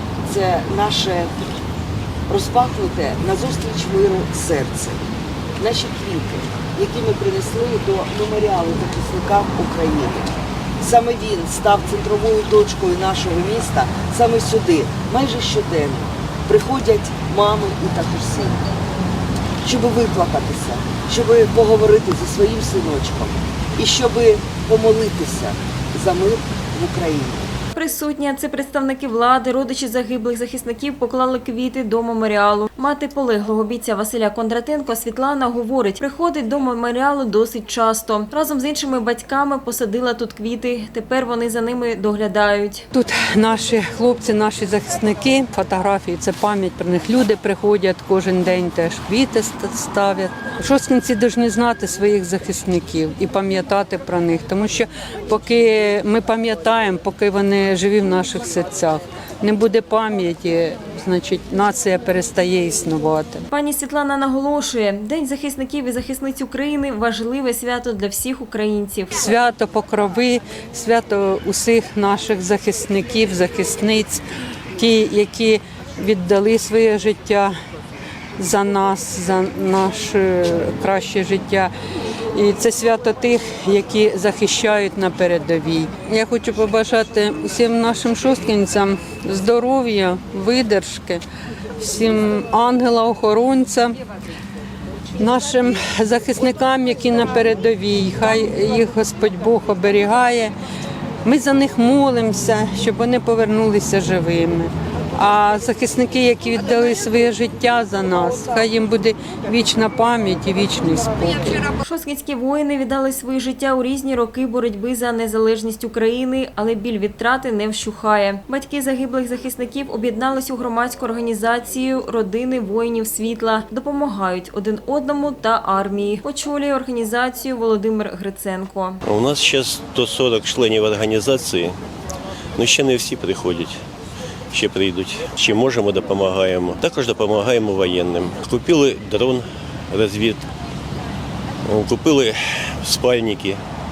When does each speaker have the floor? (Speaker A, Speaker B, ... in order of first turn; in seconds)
Speaker A: 0.2-1.5, 2.3-5.0, 5.6-18.6, 19.6-27.5
Speaker B: 27.8-42.9, 63.5-69.2, 111.8-129.0
Speaker C: 42.9-63.5, 69.1-74.2, 74.8-77.6, 78.4-81.7, 82.3-91.2, 91.8-94.0, 95.2-100.6, 101.2-111.6
Speaker D: 129.1-131.8, 132.6-133.8, 134.5-140.4, 141.7-143.6